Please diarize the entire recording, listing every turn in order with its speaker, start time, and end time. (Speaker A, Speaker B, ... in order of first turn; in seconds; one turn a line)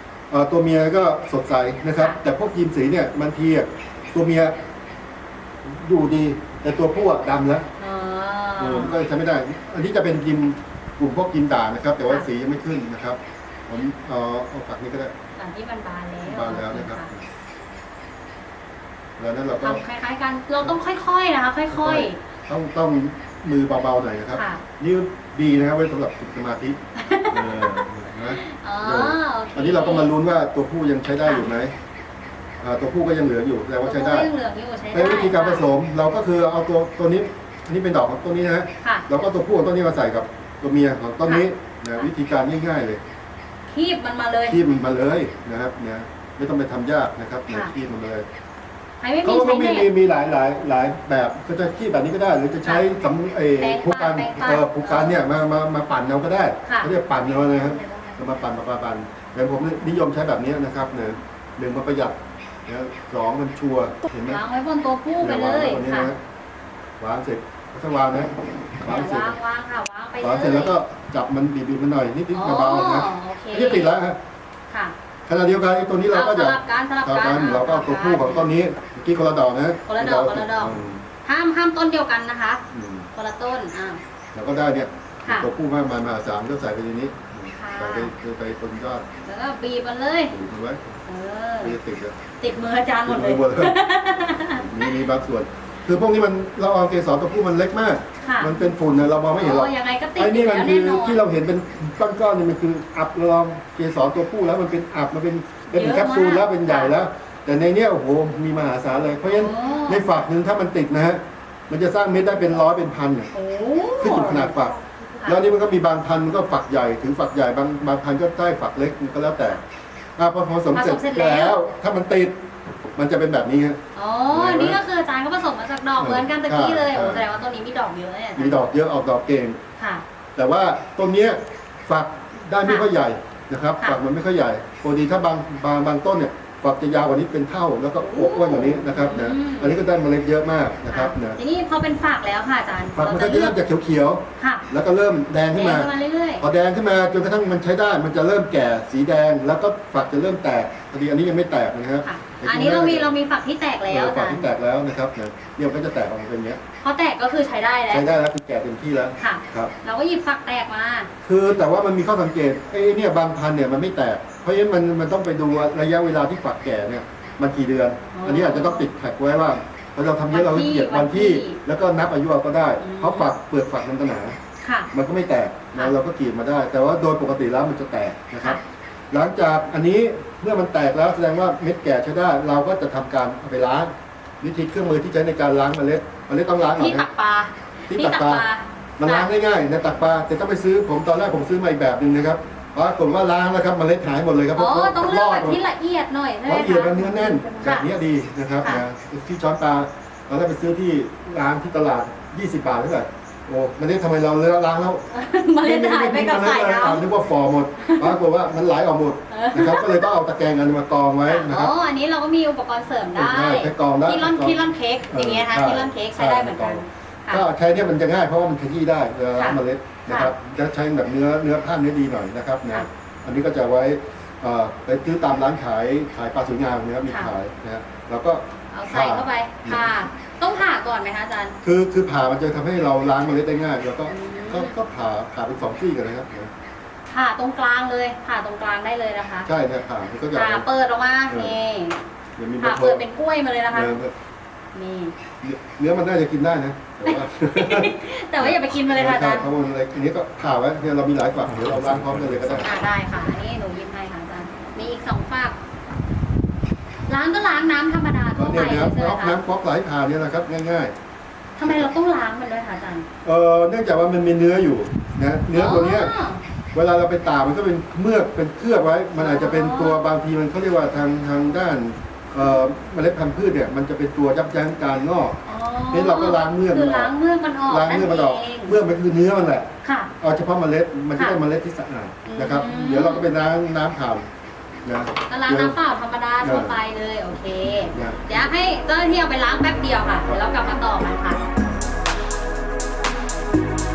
Speaker A: 0.3-4.6
Speaker A: 5.6-7.7
Speaker B: 7.8-9.0
Speaker A: 8.6-15.1
Speaker B: 15.4-17.1
Speaker A: 16.2-17.2
Speaker A: 19.2-19.8
Speaker B: 19.6-22.2
Speaker A: 21.7-26.8
Speaker B: 24.3-24.6
Speaker B: 27.0-27.8
Speaker A: 27.3-31.7
Speaker B: 28.4-30.1
Speaker B: 31.2-31.5
Speaker A: 32.6-34.3
Speaker B: 33.8-35.7
Speaker A: 34.9-43.0
Speaker B: 43.7-44.6
Speaker A: 44.5-48.2
Speaker B: 49.0-49.9
Speaker A: 49.2-64.4
Speaker B: 53.6-55.2
Speaker B: 56.6-56.9
Speaker B: 64.2-66.1
Speaker A: 65.2-66.2
Speaker A: 67.0-69.4
Speaker B: 68.9-70.8
Speaker A: 70.2-74.2
Speaker B: 72.3-73.9
Speaker B: 74.7-74.9
Speaker A: 75.2-81.0
Speaker B: 76.1-78.5
Speaker B: 79.8-84.0
Speaker A: 82.7-83.1
Speaker A: 84.3-89.0
Speaker B: 85.2-85.5
Speaker B: 87.5-88.1
Speaker B: 89.2-90.4
Speaker A: 90.3-90.9
Speaker B: 91.0-91.8
Speaker A: 91.6-92.2
Speaker B: 92.4-95.0
Speaker A: 93.0-93.8
Speaker A: 94.5-113.3
Speaker B: 98.2-98.6
Speaker B: 99.3-101.2
Speaker B: 105.7-107.0
Speaker B: 109.2-110.0
Speaker B: 113.3-114.5
Speaker A: 114.0-119.6
Speaker A: 120.2-122.4
Speaker B: 120.7-121.6
Speaker A: 123.0-124.8
Speaker B: 123.9-128.6
Speaker A: 126.0-127.2
Speaker A: 128.3-129.6
Speaker B: 129.8-130.0
Speaker A: 130.3-141.4
Speaker B: 132.6-132.9
Speaker B: 138.0-139.8
Speaker B: 140.9-143.6
Speaker A: 142.9-153.1
Speaker B: 144.4-144.7
Speaker B: 145.5-146.4
Speaker B: 152.0-154.5
Speaker A: 153.9-156.6
Speaker B: 156.8-158.1
Speaker A: 157.9-159.7
Speaker B: 159.2-161.1
Speaker A: 161.2-174.4
Speaker B: 168.1-168.9
Speaker B: 170.3-171.6
Speaker B: 172.8-173.3
Speaker B: 174.6-174.9
Speaker A: 174.9-178.6
Speaker A: 179.1-187.1
Speaker B: 186.6-189.3
Speaker A: 187.9-188.4
Speaker A: 189.0-195.6
Speaker B: 194.5-197.9
Speaker A: 196.4-205.1
Speaker B: 205.1-207.1
Speaker A: 205.6-211.7
Speaker B: 207.8-208.2
Speaker B: 209.3-210.1
Speaker B: 211.2-217.5
Speaker A: 213.1-229.9
Speaker B: 219.3-220.3
Speaker B: 227.1-227.3
Speaker B: 228.7-231.6
Speaker A: 231.6-236.5
Speaker B: 234.1-234.7
Speaker B: 237.1-239.5
Speaker A: 239.4-240.7
Speaker B: 240.3-242.0
Speaker A: 241.3-241.6
Speaker A: 242.4-243.0
Speaker B: 242.6-244.0
Speaker A: 243.7-244.1
Speaker B: 244.7-245.1
Speaker A: 245.4-252.7
Speaker B: 247.0-249.5
Speaker B: 252.6-255.6
Speaker B: 257.1-259.4
Speaker A: 258.3-260.9
Speaker B: 261.6-263.1
Speaker A: 261.6-261.9
Speaker A: 263.2-266.1
Speaker B: 265.5-266.4
Speaker A: 266.7-277.1
Speaker B: 269.1-270.1
Speaker B: 275.4-278.7
Speaker A: 277.7-284.3
Speaker B: 279.8-280.1
Speaker B: 281.1-281.4
Speaker B: 282.2-283.2
Speaker A: 284.8-285.8
Speaker B: 285.3-291.4
Speaker A: 286.4-286.8
Speaker A: 287.9-288.5